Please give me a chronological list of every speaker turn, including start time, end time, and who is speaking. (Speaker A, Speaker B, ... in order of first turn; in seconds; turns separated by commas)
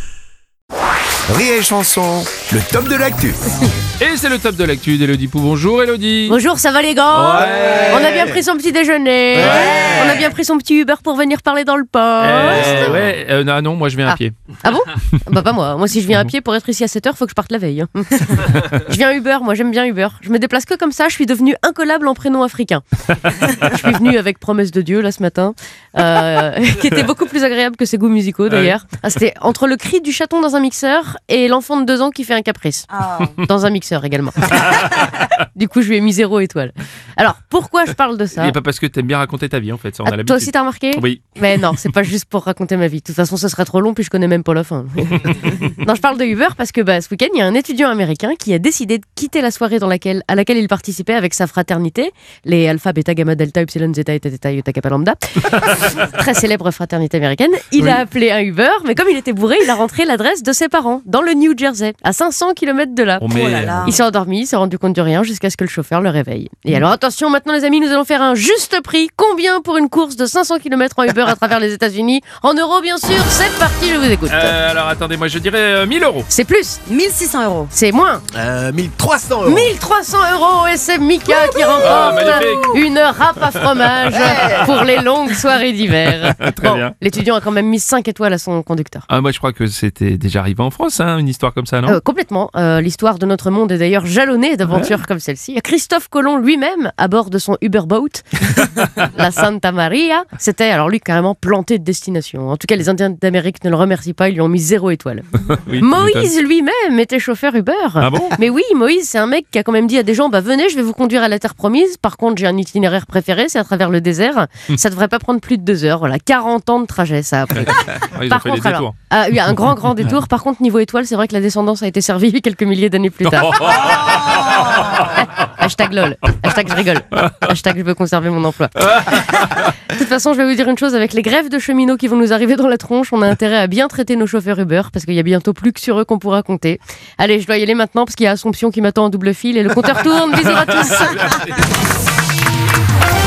Speaker A: 1.3-3.4, Speaker B: 4.0-6.4, Speaker C: 6.3-13.1, Speaker B: 7.1-8.3, Speaker B: 9.5-10.0, Speaker B: 12.2-14.3, Speaker C: 14.1-38.5, Speaker B: 28.5-28.7, Speaker D: 32.9-33.4, Speaker B: 38.3-41.2, Speaker C: 40.0-63.3, Speaker B: 63.2-63.9, Speaker D: 63.3-64.0, Speaker C: 63.8-74.5, Speaker B: 74.3-76.3, Speaker C: 76.3-76.8, Speaker D: 76.8-77.7, Speaker C: 77.7-78.2, Speaker A: 78.3-79.7, Speaker C: 79.4-89.0, Speaker B: 81.8-82.9, Speaker B: 83.4-84.9, Speaker B: 86.0-86.9, Speaker B: 89.1-92.0, Speaker C: 91.8-124.1, Speaker B: 105.5-106.3, Speaker B: 108.0-108.4, Speaker B: 117.5-118.9, Speaker B: 123.2-125.0, Speaker C: 125.0-141.5